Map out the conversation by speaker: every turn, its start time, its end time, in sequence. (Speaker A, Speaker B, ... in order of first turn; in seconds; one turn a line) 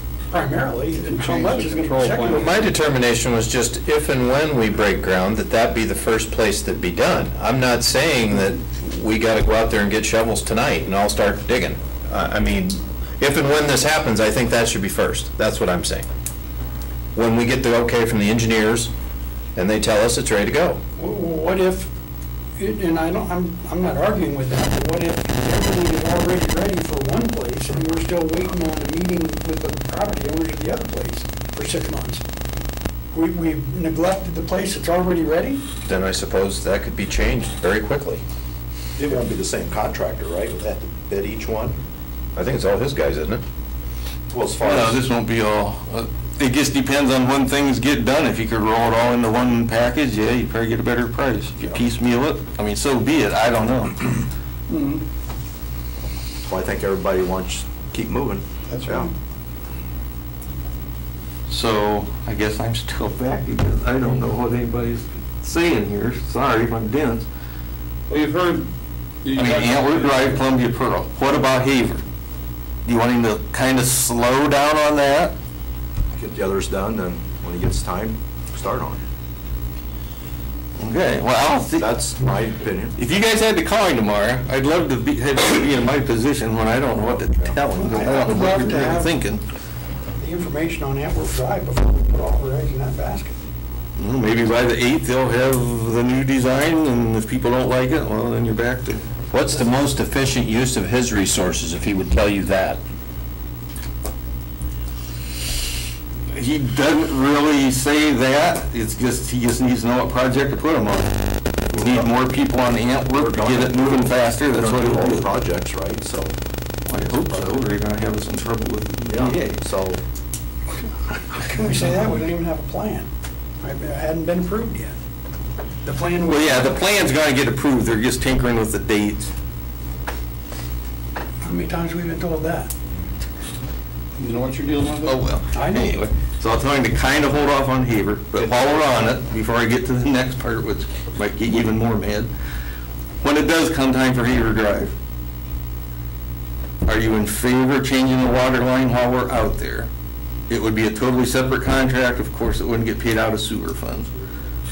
Speaker A: 0.3-2.5
Speaker B: 1.1-2.6
Speaker C: 2.2-16.1
Speaker C: 17.1-18.9
Speaker C: 19.5-20.8
Speaker A: 21.0-21.9
Speaker A: 22.6-32.2
Speaker A: 33.1-35.6
Speaker C: 35.8-38.2
Speaker D: 39.0-41.8
Speaker C: 42.3-43.4
Speaker D: 44.3-45.0
Speaker E: 44.6-54.2
Speaker B: 54.7-55.0
Speaker D: 56.5-59.1
Speaker B: 58.7-59.1
Speaker E: 61.5-67.3
Speaker B: 68.1-68.7
Speaker B: 69.2-70.4
Speaker E: 69.3-72.0
Speaker E: 72.8-75.3
Speaker D: 76.1-79.0
Speaker E: 80.8-81.9
Speaker D: 81.7-82.9
Speaker E: 83.0-89.4
Speaker D: 87.1-87.6
Speaker A: 87.8-89.2
Speaker A: 90.2-93.4
Speaker E: 94.0-99.0
Speaker C: 99.3-102.8
Speaker E: 106.3-115.3
Speaker D: 111.7-112.2
Speaker D: 113.1-116.3
Speaker E: 116.8-119.6
Speaker D: 116.9-117.8
Speaker D: 119.0-120.0
Speaker A: 121.3-123.1
Speaker A: 123.6-125.0
Speaker A: 125.8-126.8
Speaker E: 126.3-129.3
Speaker A: 131.4-132.7
Speaker B: 134.2-135.2
Speaker E: 135.0-142.3
Speaker A: 135.5-135.9
Speaker E: 143.2-144.9
Speaker E: 146.8-149.9
Speaker E: 150.5-154.1